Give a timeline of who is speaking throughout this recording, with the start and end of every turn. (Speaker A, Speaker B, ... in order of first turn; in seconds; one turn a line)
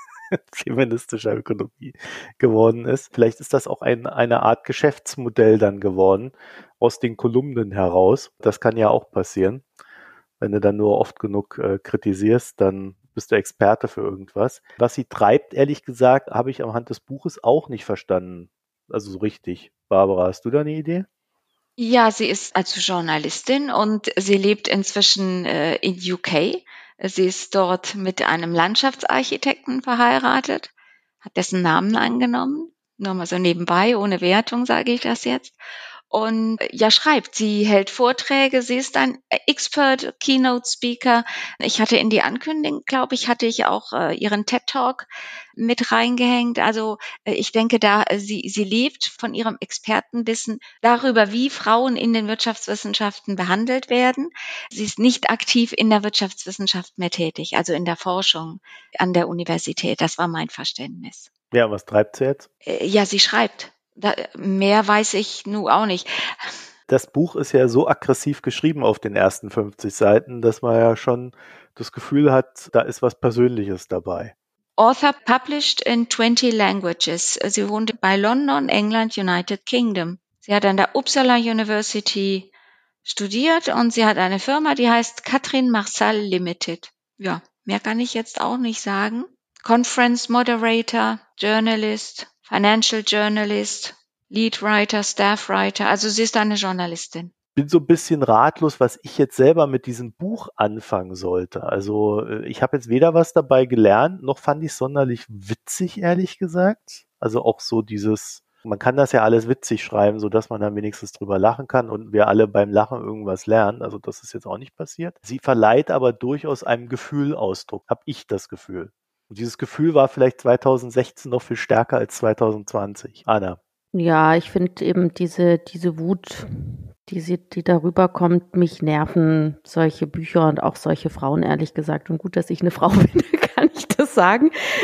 Speaker A: 0.3-9.6
Speaker A: 10.4-21.1
Speaker B: 21.8-30.7
Speaker B: 31.2-35.6
Speaker B: 36.1-61.3
Speaker A: 61.5-62.5
Speaker B: 62.6-66.5
Speaker A: 66.9-74.3
Speaker B: 74.8-82.5
Speaker B: 83.0-97.3
Speaker A: 97.5-123.6
Speaker C: 123.9-134.5